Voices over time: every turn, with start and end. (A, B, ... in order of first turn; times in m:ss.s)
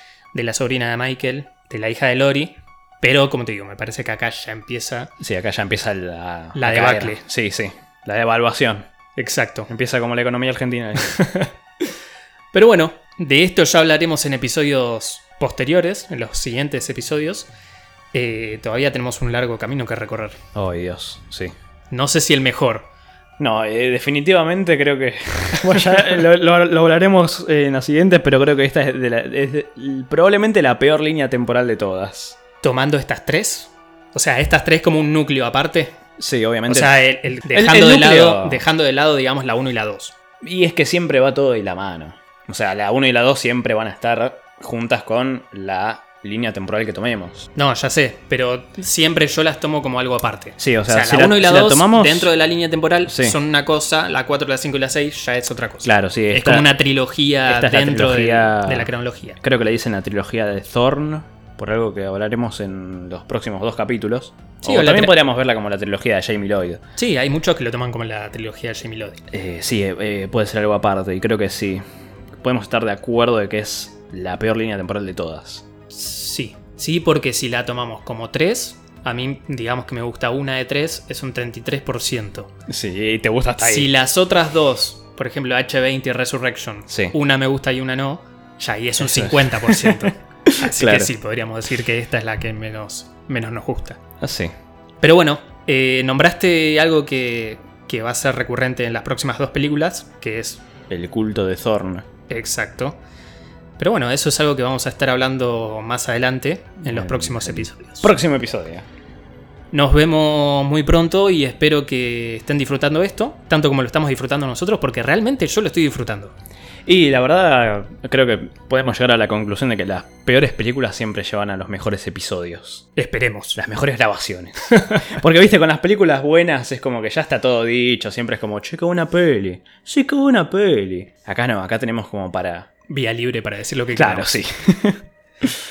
0:00.3-0:05.1 A
0:05.2-0:08.9 B
0:06.5-0:07.2 A
0:09.2-0:09.7 A
0:09.7-0:11.1 B
0:11.0-0:11.5 A
0:12.5-0:17.5 A
0:18.1-0:20.4 A
0:20.5-0:21.5 B
0:21.9-0:22.9 A
0:23.4-0:32.4 B
0:32.6-0:36.0 A
0:36.2-0:38.6 B
0:36.7-0:40.2 A
0:40.4-0:47.5 B
0:47.6-0:59.4 A
0:50.6-0:52.3 B
0:53.0-0:53.4 B
0:55.8-0:56.7 B
0:57.5-0:58.9 B
0:59.4-1:06.8 B
1:04.6-1:05.2 A
1:07.0-1:09.2 A
1:09.3-1:11.8 B
1:12.4-1:15.7 B
1:15.9-1:22.5 A
1:22.7-1:23.9 B
1:23.6-1:34.0 A
1:26.9-1:27.1 B
1:29.0-1:31.1 B
1:34.2-1:34.5 B
1:35.0-1:40.6 A
1:40.9-1:42.1 B
1:42.3-1:43.0 A
1:43.8-1:48.1 A
1:46.8-1:48.9 B
1:49.7-1:56.3 A
1:56.9-2:02.8 B
2:03.0-2:03.6 A
2:03.5-2:12.7 B
2:04.7-2:05.1 A
2:12.9-2:14.3 A
2:13.9-2:15.5 B